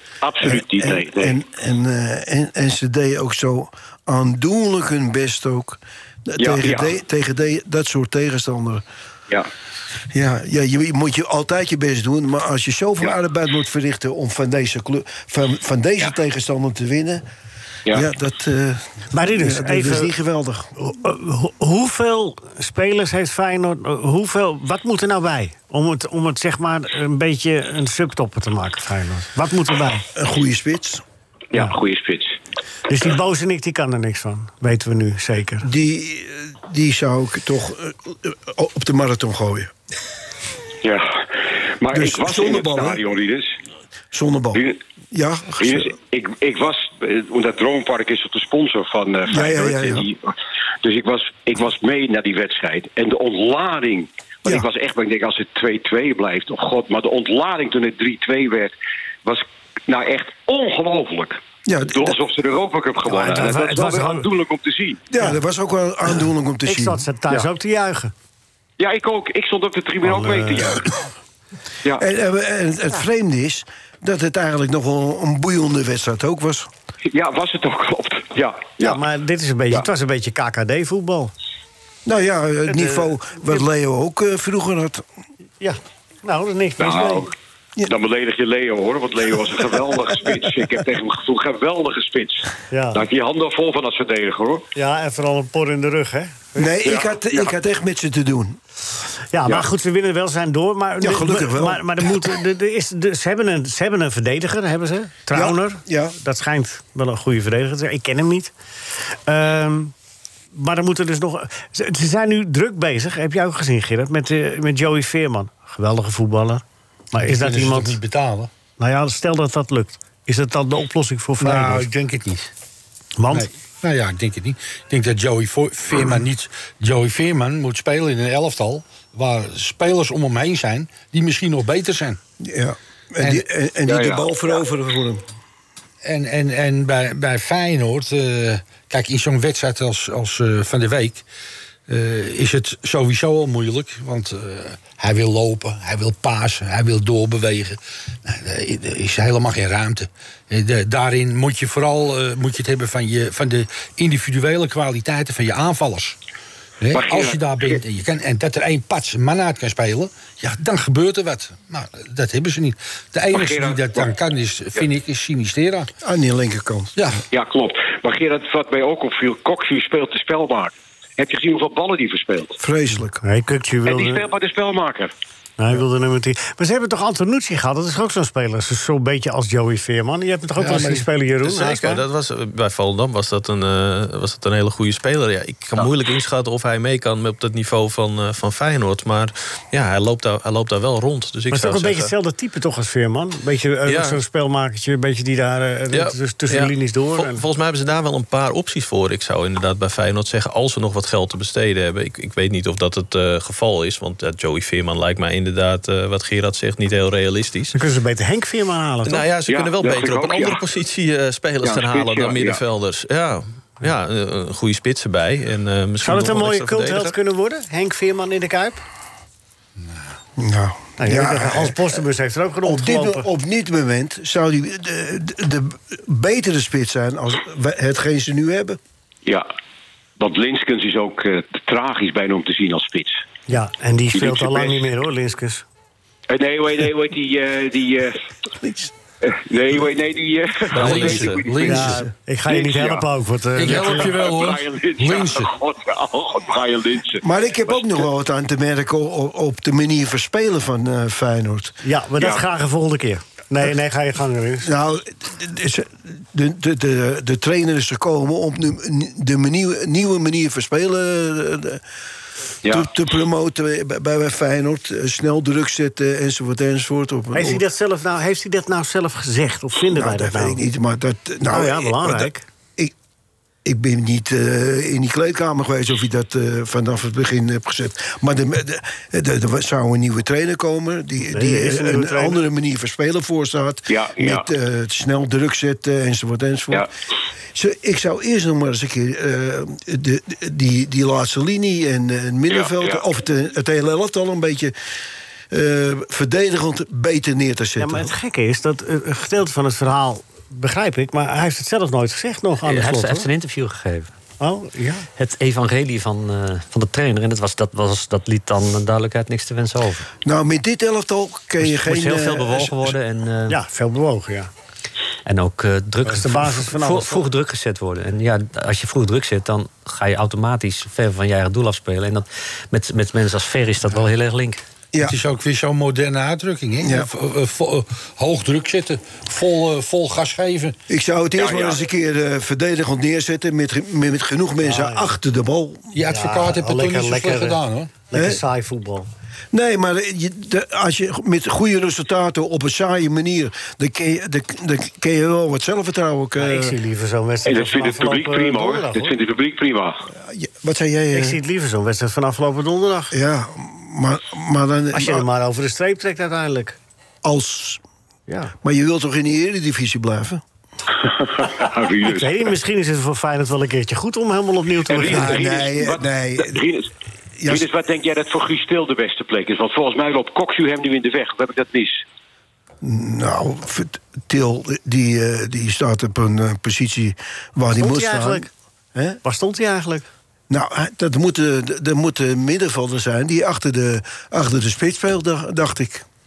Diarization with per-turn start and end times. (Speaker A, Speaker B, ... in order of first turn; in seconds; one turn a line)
Speaker A: 0.2-1.4
Speaker B: 0.4-8.8
Speaker A: 6.4-6.9
Speaker B: 10.1-17.2
Speaker B: 17.9-20.7
Speaker C: 19.1-20.1
Speaker C: 20.8-30.1
Speaker B: 30.1-31.0
Speaker A: 31.5-32.4
Speaker C: 32.9-35.7
Speaker B: 35.6-39.7
Speaker A: 40.8-43.5
Speaker B: 41.9-43.0
Speaker B: 44.1-45.9
Speaker A: 44.5-44.8
Speaker A: 45.6-50.3
Speaker B: 49.3-50.1
Speaker A: 50.8-58.7
Speaker A: 59.2-65.0
Speaker B: 61.6-62.2
Speaker C: 63.1-64.2
Speaker B: 65.1-67.0
Speaker C: 66.7-68.1
Speaker A: 68.8-70.9
Speaker C: 70.0-70.8
Speaker B: 72.0-76.7
Speaker A: 77.1-79.0
Speaker C: 78.8-81.3
Speaker B: 82.1-85.0
Speaker C: 82.7-83.1
Speaker C: 85.6-87.3
Speaker A: 86.8-87.3
Speaker A: 87.9-94.7
Speaker C: 92.7-93.0
Speaker C: 94.8-96.7
Speaker B: 96.6-98.6
Speaker A: 96.8-97.5
Speaker C: 99.3-108.5
Speaker B: 101.0-102.3
Speaker B: 105.3-106.2
Speaker C: 109.3-109.9
Speaker C: 110.5-118.0
Speaker D: 117.2-118.5
Speaker C: 118.8-121.9
Speaker D: 121.4-122.5
Speaker C: 123.2-123.5
Speaker D: 123.3-132.2
Speaker B: 132.4-135.2
Speaker A: 133.9-134.6
Speaker D: 136.0-141.2
Speaker D: 141.9-156.2
Speaker D: 156.8-165.9
Speaker A: 156.9-157.8
Speaker A: 163.3-164.1
Speaker B: 166.0-166.9
Speaker D: 167.0-167.2
Speaker A: 167.3-172.6
Speaker B: 172.6-173.2
Speaker C: 173.2-174.2
Speaker A: 173.9-175.1
Speaker C: 175.6-182.0
Speaker D: 180.6-181.1
Speaker E: 181.4-192.1
Speaker C: 191.5-197.4
Speaker E: 193.9-194.2
Speaker E: 195.9-207.8
Speaker C: 207.7-209.3
Speaker E: 209.1-217.2
Speaker A: 209.5-210.6
Speaker A: 211.6-212.6
Speaker C: 216.0-218.8
Speaker D: 219.8-220.1
Speaker B: 220.4-222.0
Speaker C: 221.0-223.3
Speaker B: 222.6-228.8
Speaker A: 230.2-233.2
Speaker C: 233.5-235.7
Speaker A: 234.1-234.9
Speaker A: 236.3-238.2
Speaker B: 238.6-238.9
Speaker A: 239.2-242.0
Speaker E: 240.7-241.5
Speaker D: 240.8-242.1
Speaker C: 241.6-244.1
Speaker A: 242.5-243.1
Speaker D: 243.6-245.5
Speaker A: 243.6-248.0
Speaker B: 247.2-251.8
Speaker C: 251.8-254.7
Speaker B: 254.6-261.8
Speaker B: 262.6-267.6
Speaker C: 267.3-270.6
Speaker B: 269.9-272.9
Speaker C: 271.5-272.5
Speaker B: 273.6-286.9
Speaker C: 281.2-282.4
Speaker A: 283.9-284.4
Speaker B: 287.6-294.7
Speaker A: 292.5-293.0
Speaker B: 295.5-298.1
Speaker C: 297.8-303.3
Speaker F: 302.6-304.1
Speaker C: 304.4-305.1
Speaker F: 305.2-310.1
Speaker B: 310.2-312.9
Speaker F: 311.6-313.6
Speaker C: 313.5-314.5
Speaker F: 315.3-324.6
Speaker C: 316.1-317.2
Speaker D: 325.0-330.8
Speaker B: 326.8-327.1
Speaker B: 330.9-335.9
Speaker A: 331.4-331.8
Speaker C: 334.6-335.1
Speaker D: 335.9-338.0
Speaker C: 336.1-339.1
Speaker B: 338.1-338.4
Speaker B: 339.5-346.8
Speaker C: 346.4-349.1
Speaker A: 347.4-350.1
Speaker B: 350.1-351.4
Speaker C: 351.1-353.1
Speaker B: 353.1-355.3
Speaker C: 354.9-356.8
Speaker B: 357.2-357.8
Speaker C: 358.3-358.5
Speaker B: 358.6-360.4
Speaker A: 361.0-362.4
Speaker C: 362.1-365.4
Speaker A: 364.9-366.9
Speaker B: 365.0-366.6
Speaker B: 367.4-367.7
Speaker A: 367.5-372.0
Speaker B: 372.8-379.2
Speaker C: 377.8-378.5
Speaker C: 379.2-380.1
Speaker B: 380.5-386.1